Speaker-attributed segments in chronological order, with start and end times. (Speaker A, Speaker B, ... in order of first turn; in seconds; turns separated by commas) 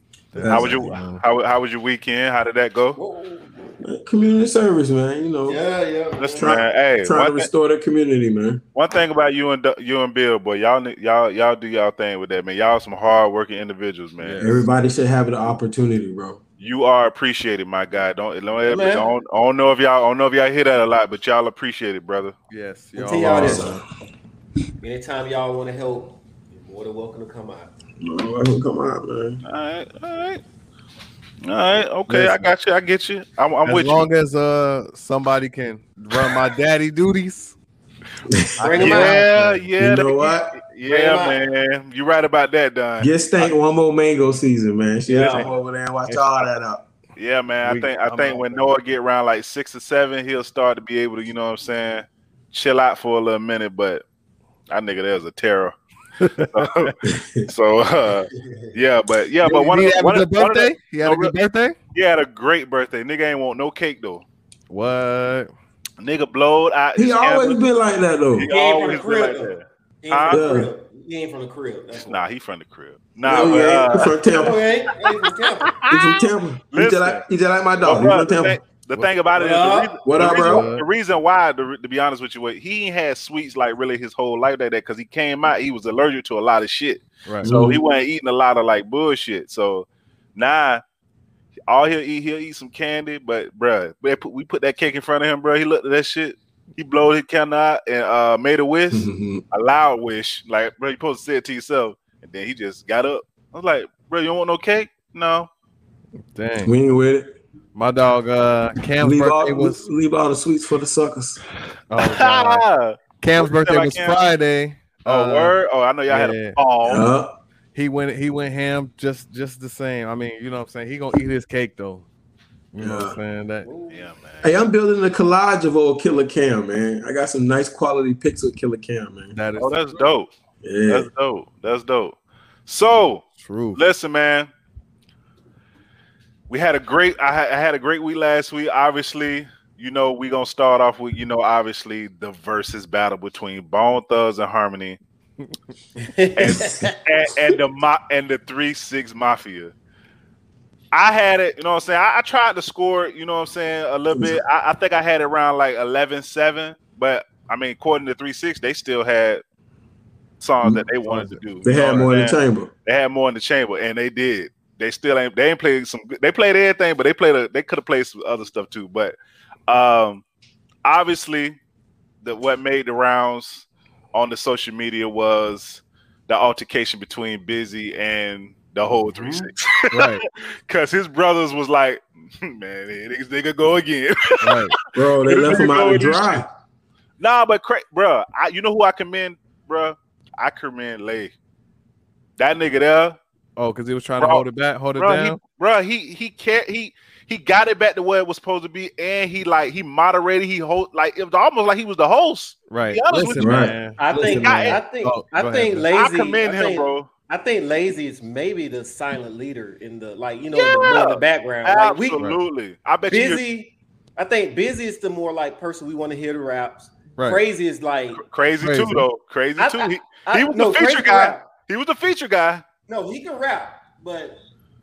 Speaker A: 0.3-1.2, Speaker B: 0.4-1.0, Speaker C: 0.5-3.0, Speaker D: 3.0-3.5, Speaker B: 3.8-5.6, Speaker D: 5.5-6.5, Speaker C: 6.2-7.5, Speaker B: 6.4-8.6, Speaker C: 8.8-14.5, Speaker A: 14.2-14.7, Speaker B: 14.4-16.4, Speaker C: 16.6-22.3, Speaker D: 18.7-19.1, Speaker A: 22.5-23.8, Speaker D: 22.9-23.8, Speaker B: 23.2-23.8, Speaker D: 24.8-27.7, Speaker B: 28.0-29.4, Speaker C: 29.4-30.4, Speaker C: 31.4-34.1, Speaker A: 32.1-32.5, Speaker A: 33.7-37.6, Speaker B: 38.3-39.0, Speaker D: 38.6-39.2, Speaker A: 38.6-39.6, Speaker C: 38.8-43.5, Speaker B: 39.8-40.6, Speaker D: 40.9-41.4, Speaker B: 43.0-46.8, Speaker D: 45.1-45.5, Speaker C: 47.2-54.0, Speaker A: 47.6-48.7, Speaker C: 54.7-55.8, Speaker A: 56.2-56.9, Speaker C: 56.4-61.3, Speaker B: 57.0-57.5, Speaker D: 58.4-58.7, Speaker A: 59.4-61.8, Speaker C: 62.0-64.3, Speaker A: 64.7-65.5, Speaker C: 66.0-67.7, Speaker B: 67.0-68.5, Speaker C: 68.3-70.5, Speaker D: 68.5-69.5, Speaker D: 70.0-72.2, Speaker B: 70.3-70.7, Speaker C: 71.9-77.2, Speaker B: 73.3-74.6, Speaker D: 73.3-75.8, Speaker B: 75.9-78.6, Speaker C: 77.8-90.8, Speaker D: 79.3-80.0, Speaker B: 80.0-80.7, Speaker A: 80.2-80.8, Speaker A: 87.2-87.5, Speaker B: 87.4-87.8, Speaker C: 91.7-105.5, Speaker B: 98.9-99.4, Speaker A: 106.3-106.7, Speaker B: 106.6-107.3, Speaker A: 107.8-109.8, Speaker B: 109.0-111.4, Speaker A: 111.9-112.7, Speaker C: 112.0-114.2, Speaker A: 113.2-115.6, Speaker C: 115.0-117.1, Speaker A: 116.1-116.6, Speaker B: 116.8-117.3, Speaker A: 117.8-122.1, Speaker A: 122.7-123.7, Speaker B: 122.8-123.2, Speaker D: 123.6-124.1, Speaker C: 123.9-124.5, Speaker B: 124.4-129.3, Speaker A: 129.3-130.0, Speaker C: 129.6-130.3, Speaker B: 130.6-131.1, Speaker C: 130.9-134.5, Speaker A: 133.4-133.8, Speaker C: 136.5-145.0, Speaker D: 146.0-147.6, Speaker C: 146.4-149.7, Speaker C: 150.9-159.4, Speaker B: 154.1-154.4, Speaker C: 160.4-169.2, Speaker A: 161.0-162.1, Speaker B: 161.6-162.7, Speaker C: 169.7-170.2, Speaker C: 170.8-171.6, Speaker C: 172.2-186.5, Speaker D: 179.2-179.5, Speaker A: 179.9-180.2, Speaker A: 184.4-184.7, Speaker B: 184.9-186.5, Speaker C: 187.2-191.3, Speaker C: 192.4-193.2, Speaker A: 193.6-195.4, Speaker C: 194.2-194.5, Speaker C: 195.0-204.8, Speaker A: 202.7-204.4, Speaker B: 203.4-204.4, Speaker D: 204.0-212.2, Speaker A: 205.0-205.9, Speaker C: 205.9-207.1, Speaker C: 210.5-213.4, Speaker D: 213.1-218.2, Speaker C: 218.1-222.6, Speaker A: 218.6-219.1, Speaker D: 219.6-221.5, Speaker D: 222.9-224.4